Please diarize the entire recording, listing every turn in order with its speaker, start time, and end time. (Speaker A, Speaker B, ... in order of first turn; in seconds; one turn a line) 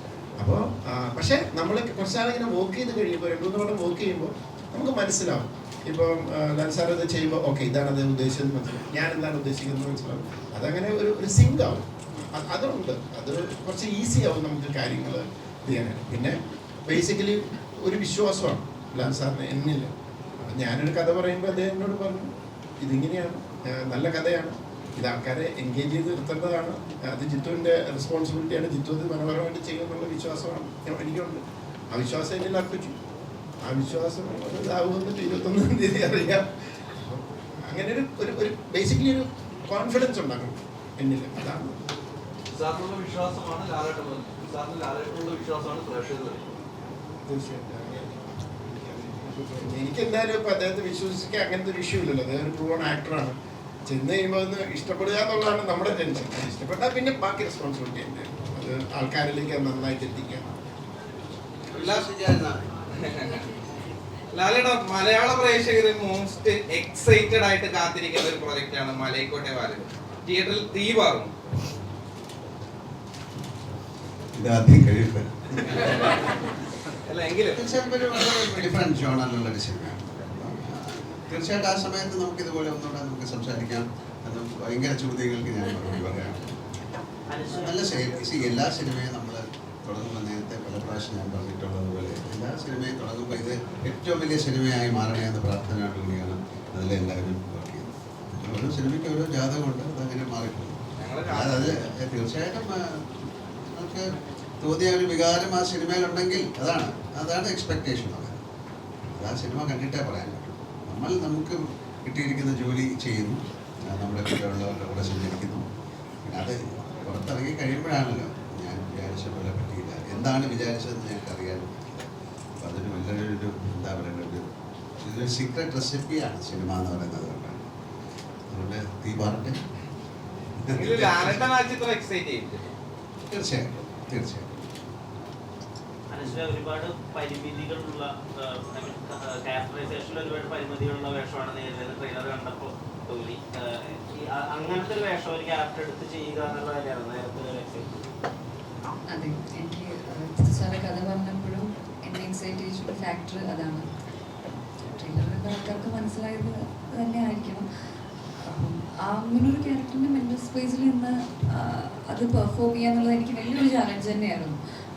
Speaker A: 0.4-16.4
Speaker A: 16.9-19.9
Speaker A: 20.4-22.3
Speaker A: 22.8-32.9
Speaker A: 33.6-36.5
Speaker A: 37.0-41.7
Speaker B: 42.5-46.5
Speaker A: 47.3-53.3
Speaker A: 53.9-60.5
Speaker C: 61.7-62.4
Speaker D: 61.7-62.5
Speaker C: 64.3-71.3
Speaker D: 74.4-76.0
Speaker C: 77.1-77.6
Speaker D: 77.5-86.5
Speaker E: 87.3-88.2
Speaker D: 87.6-103.0
Speaker C: 101.0-101.7
Speaker D: 103.7-104.1
Speaker D: 104.6-108.4
Speaker D: 109.1-113.4
Speaker D: 113.9-115.6
Speaker D: 116.2-122.1
Speaker D: 122.6-124.4
Speaker D: 125.0-127.7
Speaker D: 128.5-129.6
Speaker D: 130.6-131.5
Speaker C: 130.7-132.6
Speaker D: 133.3-134.5
Speaker E: 136.1-148.0
Speaker F: 149.1-153.9
Speaker F: 154.8-157.6
Speaker F: 158.5-164.5